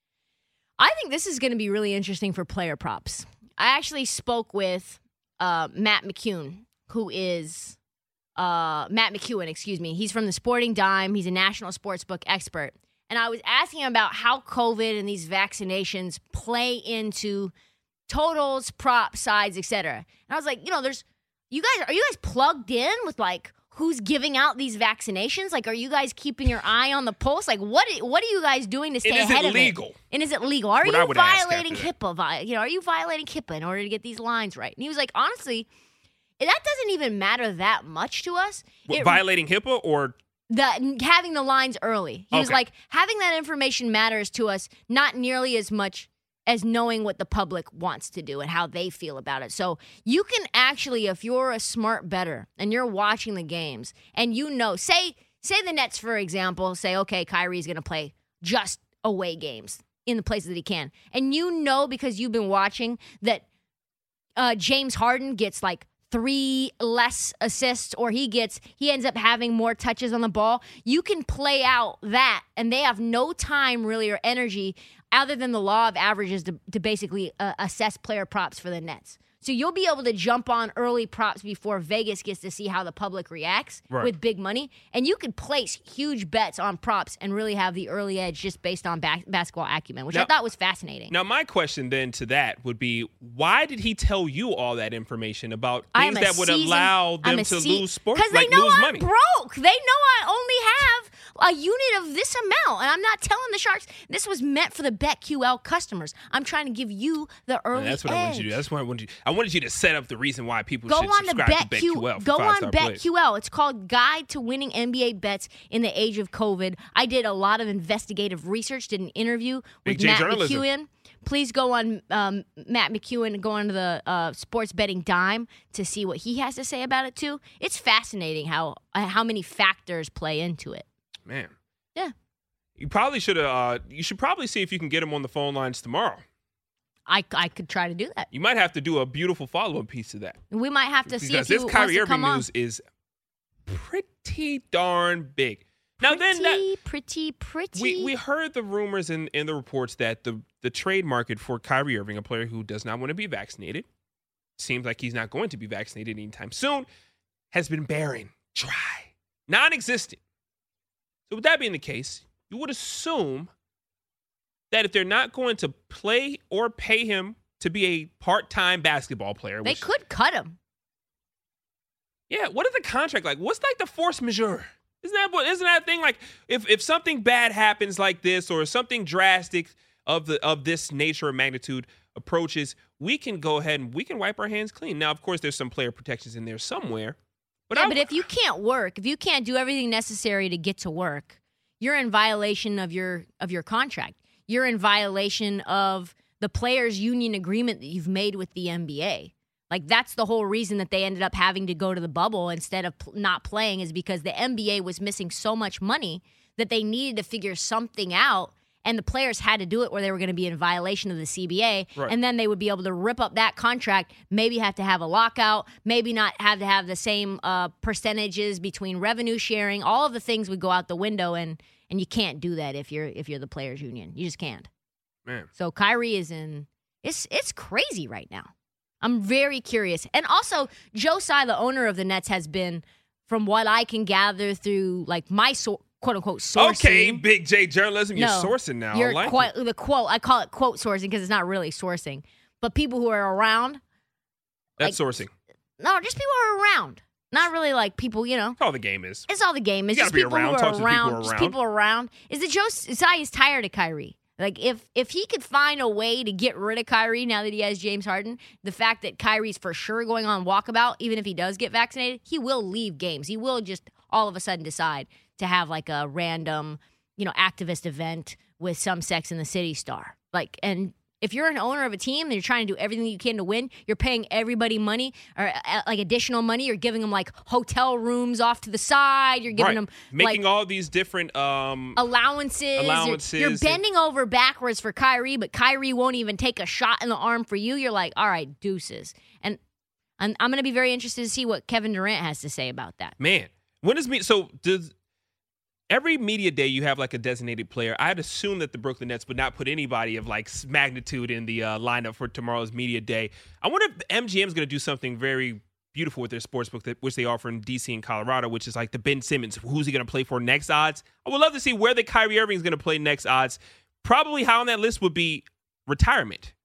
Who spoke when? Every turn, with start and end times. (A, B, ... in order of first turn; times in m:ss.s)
0:00.8-0:07.8 A
0:08.4-0:17.5 A
0:18.1-0:35.7 A
0:29.0-0:30.0 B
0:30.8-0:31.9 B
0:36.4-0:39.2 A
0:38.9-0:40.2 B
0:40.5-1:03.4 A
0:42.3-0:42.6 B
1:04.4-1:31.1 A
1:31.1-1:39.0 B
1:35.9-1:48.6 A
1:47.7-1:53.0 B
1:50.9-2:10.9 A
1:59.8-2:00.6 B
2:11.2-2:11.6 B
2:12.8-2:16.2 B
2:17.1-2:18.3 A
2:18.3-2:20.4 B
2:20.5-2:22.5 A
2:21.1-2:22.8 B
2:23.7-2:26.6 B
2:26.0-2:28.1 A
2:27.8-2:33.9 B
2:34.6-2:36.9 B
2:37.5-2:40.2 B
2:41.3-2:43.5 B
2:44.7-2:49.9 B
2:49.6-2:50.6 A
2:52.3-3:07.2 B
3:07.7-3:08.3 B
3:07.7-3:44.7 A
3:45.6-3:57.2 A
3:56.6-3:59.5 B
3:58.2-4:03.8 A
4:04.8-4:05.3 B
4:05.8-4:08.6 A
4:08.6-4:09.3 B
4:09.3-4:40.4 A
4:09.9-4:11.6 B
4:39.5-4:42.0 B
4:42.0-4:49.6 A
4:42.8-4:43.8 B
4:50.2-4:53.2 A
4:53.2-4:54.9 B
4:55.9-5:16.5 B